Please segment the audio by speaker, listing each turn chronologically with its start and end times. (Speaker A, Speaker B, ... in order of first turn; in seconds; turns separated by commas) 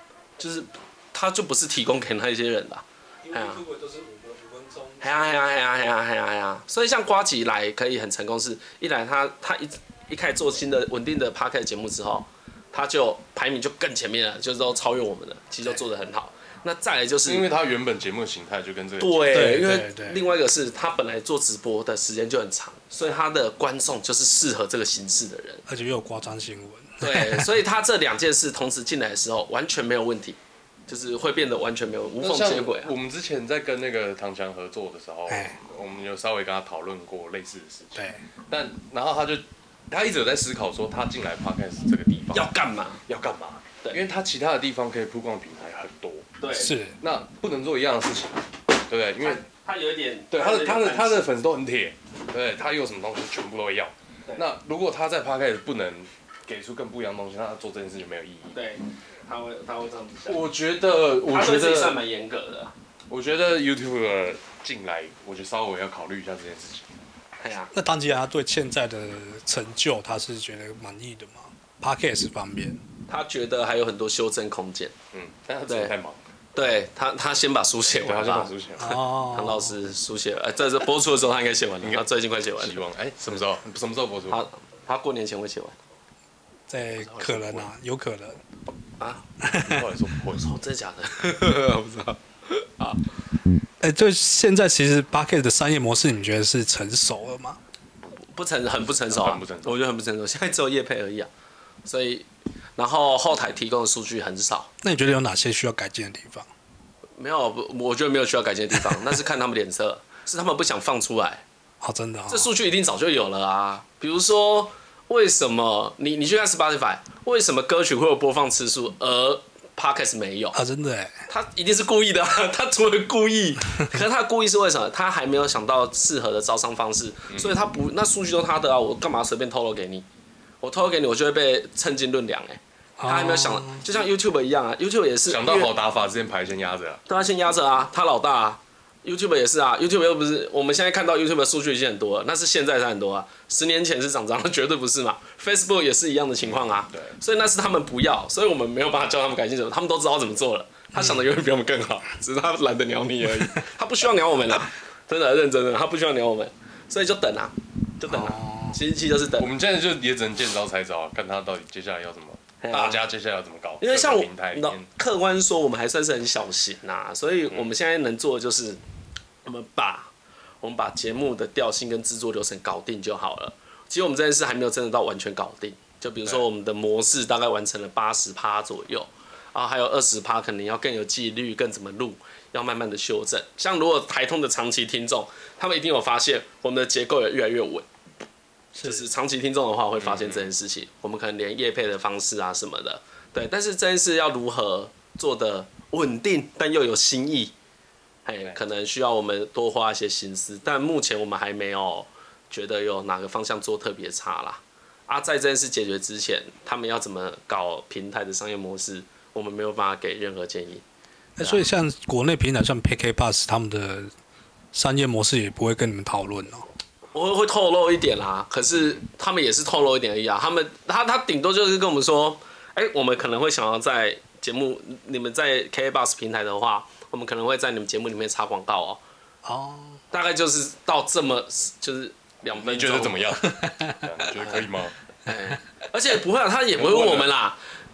Speaker A: 0.4-3.6, Speaker B: 3.2-5.6, Speaker A: 5.0-17.5, Speaker C: 17.3-19.4, Speaker A: 19.0-25.6, Speaker B: 19.3-20.2, Speaker B: 25.7-27.5, Speaker A: 27.0-30.4, Speaker A: 30.9-32.9, Speaker C: 32.2-42.5, Speaker B: 35.3-35.6, Speaker B: 38.0-38.2, Speaker A: 42.3-43.0, Speaker C: 43.1-46.4, Speaker A: 46.4-46.8, Speaker B: 46.5-47.0, Speaker C: 47.0-49.4, Speaker A: 49.2-51.3, Speaker C: 50.3-58.6, Speaker A: 58.5-60.4, Speaker C: 60.3-62.0, Speaker A: 61.3-62.7, Speaker C: 63.1-66.9, Speaker A: 67.4-67.7, Speaker B: 67.7-72.8, Speaker A: 73.1-75.0, Speaker C: 75.1-76.2, Speaker A: 75.7-75.9, Speaker A: 76.5-82.8, Speaker C: 78.0-79.0, Speaker B: 78.8-79.8, Speaker C: 81.8-84.4, Speaker A: 84.3-85.8, Speaker B: 86.7-88.4, Speaker C: 87.0-87.7, Speaker A: 89.0-89.3, Speaker B: 89.5-89.8, Speaker C: 89.5-90.5, Speaker A: 90.3-93.0, Speaker B: 93.8-97.6, Speaker A: 98.3-101.3, Speaker C: 98.9-99.8, Speaker A: 101.8-102.3, Speaker A: 102.8-104.7, Speaker B: 104.8-106.5, Speaker A: 107.2-111.4, Speaker B: 111.8-112.5, Speaker A: 112.3-120.6, Speaker B: 120.5-121.1, Speaker A: 121.3-130.1, Speaker A: 130.6-135.7, Speaker B: 133.0-133.8, Speaker C: 135.3-137.0, Speaker A: 137.1-159.5, Speaker C: 146.4-147.2, Speaker B: 150.9-151.2, Speaker B: 158.1-158.8, Speaker C: 159.4-164.9, Speaker A: 162.6-163.0, Speaker A: 163.8-168.8, Speaker A: 169.4-170.1, Speaker A: 170.6-187.9, Speaker A: 188.8-197.5, Speaker C: 190.0-190.5, Speaker A: 198.3-210.8, Speaker B: 211.4-214.1, Speaker A: 211.4-211.7, Speaker B: 214.7-216.7, Speaker A: 217.1-229.0, Speaker B: 229.4-230.0, Speaker A: 230.1-233.3, Speaker C: 232.5-234.9, Speaker A: 235.3-237.6, Speaker C: 236.8-237.3